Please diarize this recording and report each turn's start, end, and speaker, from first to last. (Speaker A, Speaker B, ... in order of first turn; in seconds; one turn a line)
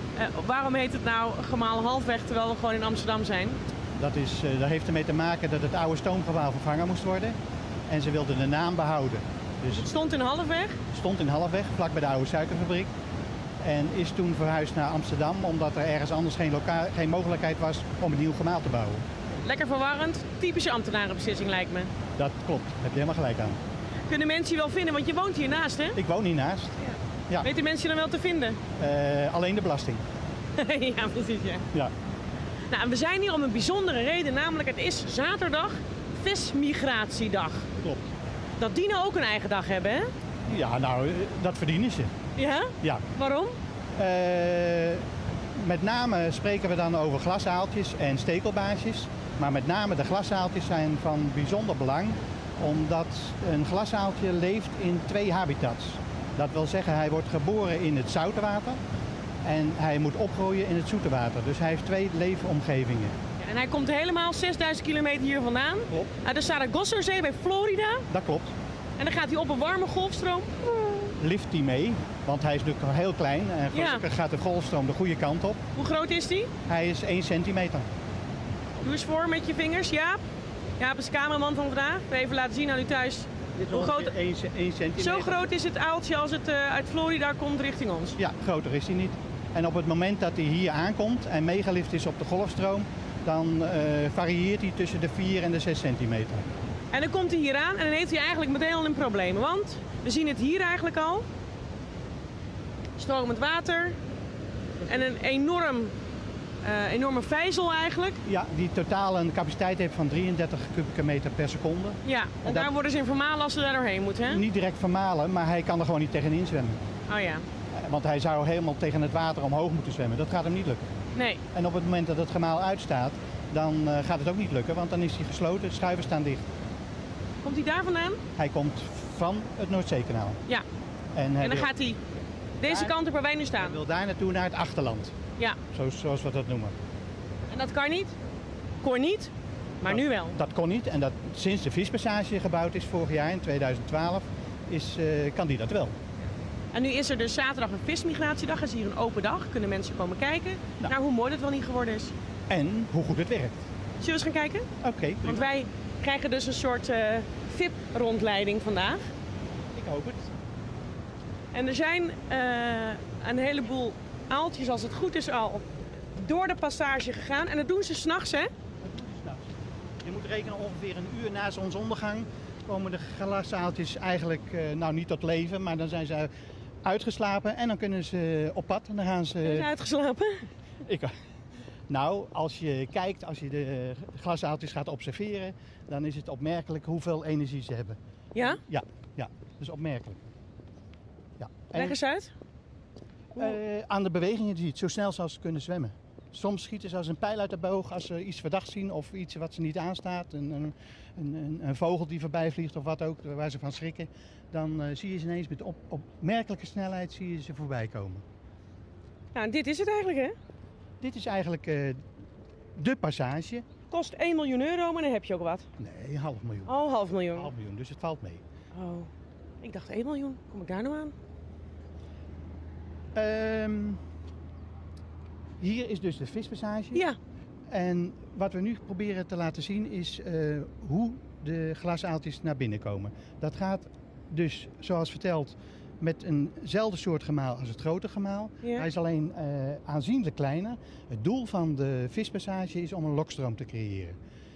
Speaker A: 0.1-3.6
Speaker B: 4.0-7.3
Speaker B: 7.9-9.9
Speaker A: 9.7-10.8
Speaker B: 10.9-12.9
Speaker B: 13.6-19.1
Speaker A: 19.4-21.9
Speaker B: 22.1-23.6
Speaker A: 24.1-26.0
Speaker B: 25.9-26.7
Speaker A: 26.8-28.6
Speaker B: 28.8-30.0
Speaker A: 30.6-31.7
Speaker A: 32.7-37.7
Speaker B: 37.8-38.1
Speaker A: 38.6-40.1
Speaker B: 40.5-42.1
Speaker A: 42.4-43.6
Speaker B: 42.8-43.0
Speaker B: 44.0-58.8
Speaker B: 59.4-63.2
Speaker A: 63.4-68.1
Speaker B: 68.1-68.5
Speaker A: 69.0-71.1
Speaker B: 71.2-75.6
Speaker A: 73.7-74.0
Speaker A: 75.8-76.5
Speaker B: 76.7-77.9
Speaker A: 78.8-80.2
Speaker A: 80.8-84.1
Speaker B: 83.5-85.4
Speaker A: 85.0-88.2
Speaker B: 88.2-96.5
Speaker A: 96.9-101.3
Speaker A: 103.0-104.0
Speaker B: 104.8-105.1
Speaker A: 104.9-105.9
Speaker A: 106.6-108.2
Speaker B: 108.2-112.7
Speaker A: 112.0-114.4
Speaker B: 114.3-116.8
Speaker A: 117.1-117.5
Speaker B: 117.7-121.0
Speaker A: 121.1-121.4
Speaker B: 121.5-126.5
Speaker A: 127.4-128.2
Speaker B: 128.3-130.4
Speaker B: 131.1-131.7
Speaker A: 131.4-132.0
Speaker A: 132.6-133.8
Speaker B: 132.6-133.0
Speaker B: 133.6-135.2
Speaker B: 135.7-136.8
Speaker A: 137.5-138.1
Speaker A: 138.8-140.4
Speaker B: 139.8-145.9
Speaker A: 146.7-152.1
Speaker B: 152.5-153.7
Speaker A: 154.0-154.7
Speaker B: 154.8-155.5
Speaker A: 155.2-159.1
Speaker B: 159.7-160.3
Speaker A: 161.5-168.5
Speaker B: 168.8-176.3
Speaker B: 176.8-179.7
Speaker A: 179.4-180.5
Speaker B: 180.8-181.2
Speaker B: 181.9-190.2
Speaker A: 188.3-188.6
Speaker B: 191.4-192.0
Speaker A: 191.7-192.3
Speaker B: 193.4-208.2
Speaker A: 209.3-210.3
Speaker B: 211.0-212.0
Speaker B: 212.7-213.7
Speaker A: 213.9-215.7
Speaker B: 215.8-216.7
Speaker A: 216.7-217.5
Speaker B: 217.3-218.4
Speaker A: 218.7-219.1
Speaker A: 219.6-221.1
Speaker B: 223.1-224.0
Speaker B: 225.6-227.0
Speaker B: 227.7-244.2